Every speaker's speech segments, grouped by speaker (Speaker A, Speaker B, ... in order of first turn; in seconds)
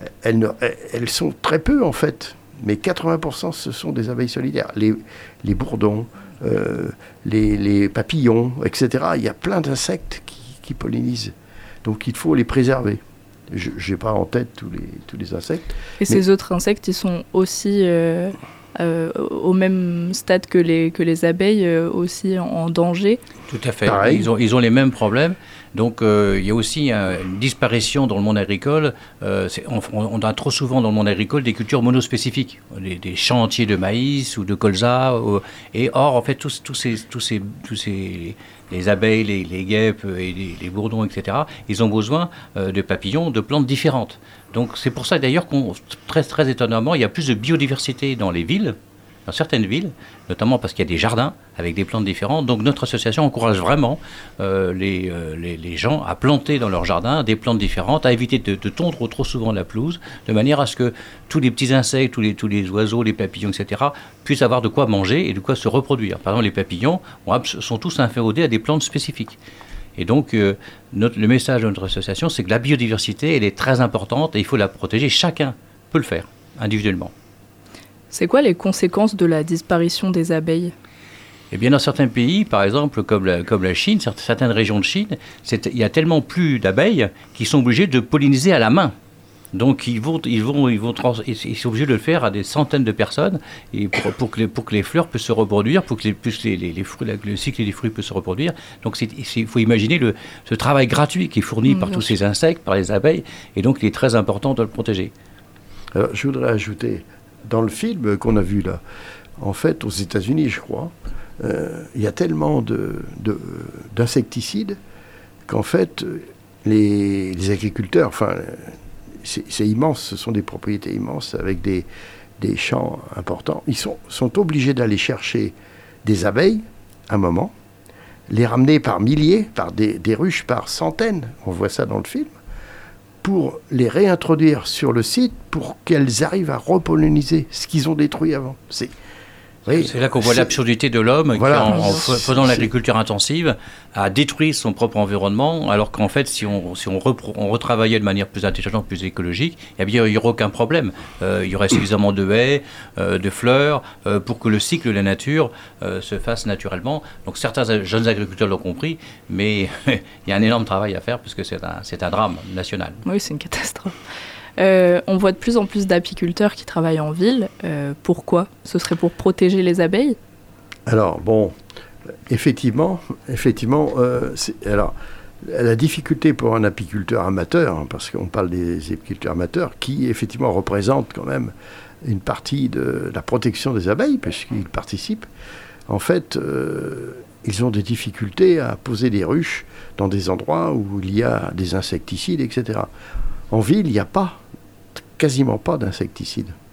Speaker A: 0.2-16.2, 23.9-24.3, 106.0-108.8, 109.4-114.8, 115.5-121.9, 122.4-127.5, 128.3-132.3, 133.2-138.9, 139.7-140.6, 141.3-142.7, 170.9-171.5, 172.3-181.5, 182.0-185.3, 185.9-192.9, 193.5-194.4, 195.2-196.6
Speaker B: 16.0-23.2, 78.1-80.7, 101.7-102.2, 141.7-142.1, 163.1-164.0, 164.6-170.2
Speaker C: 23.5-69.4, 70.0-77.1, 81.5-88.9, 89.5-105.1, 139.8-163.0